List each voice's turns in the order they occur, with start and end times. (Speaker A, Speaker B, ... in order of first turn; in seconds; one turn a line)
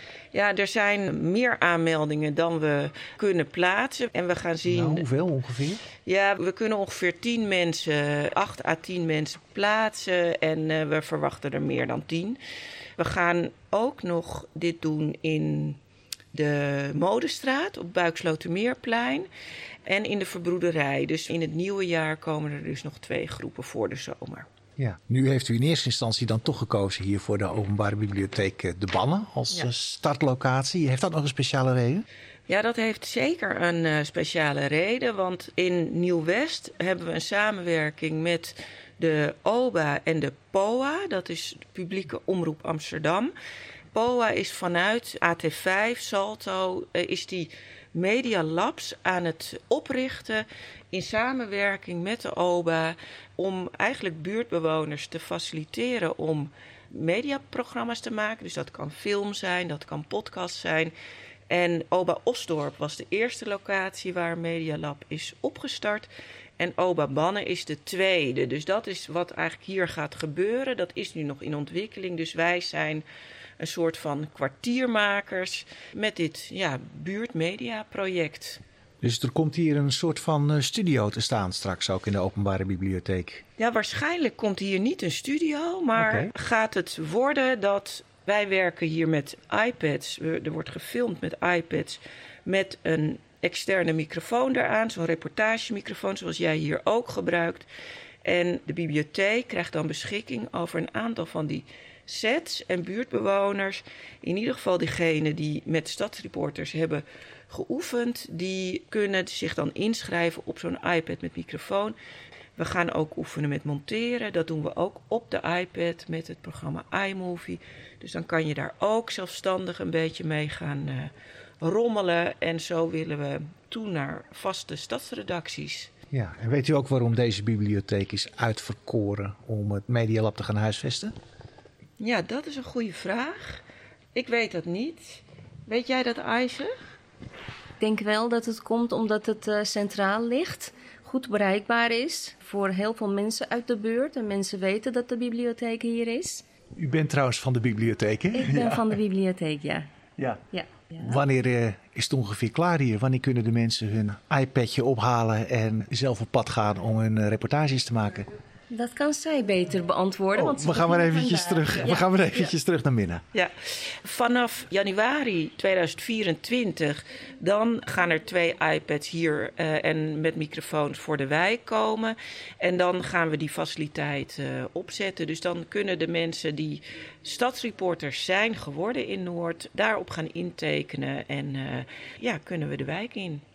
Speaker A: 0.3-5.1
Speaker B: 4.7-5.8
Speaker A: 6.0-12.4
Speaker A: 13.0-15.8
Speaker A: 16.3-19.3
Speaker A: 19.9-24.5
Speaker B: 24.8-32.0
Speaker A: 32.5-43.3
Speaker A: 43.9-60.9
Speaker A: 61.5-73.0
Speaker A: 73.6-78.6
Speaker B: 79.0-83.4
Speaker A: 83.6-97.7
Speaker B: 86.0-86.3
Speaker A: 98.2-112.0
Speaker A: 112.6-121.1
Speaker A: 121.6-125.9
Speaker B: 126.1-131.2
Speaker A: 132.0-133.6
Speaker A: 134.1-136.7
Speaker C: 137.8-146.4
Speaker B: 146.8-148.9
Speaker C: 148.3-149.9
Speaker C: 150.5-151.2
Speaker B: 151.0-158.3
Speaker C: 158.7-162.5
Speaker B: 160.3-163.2
Speaker A: 164.0-183.4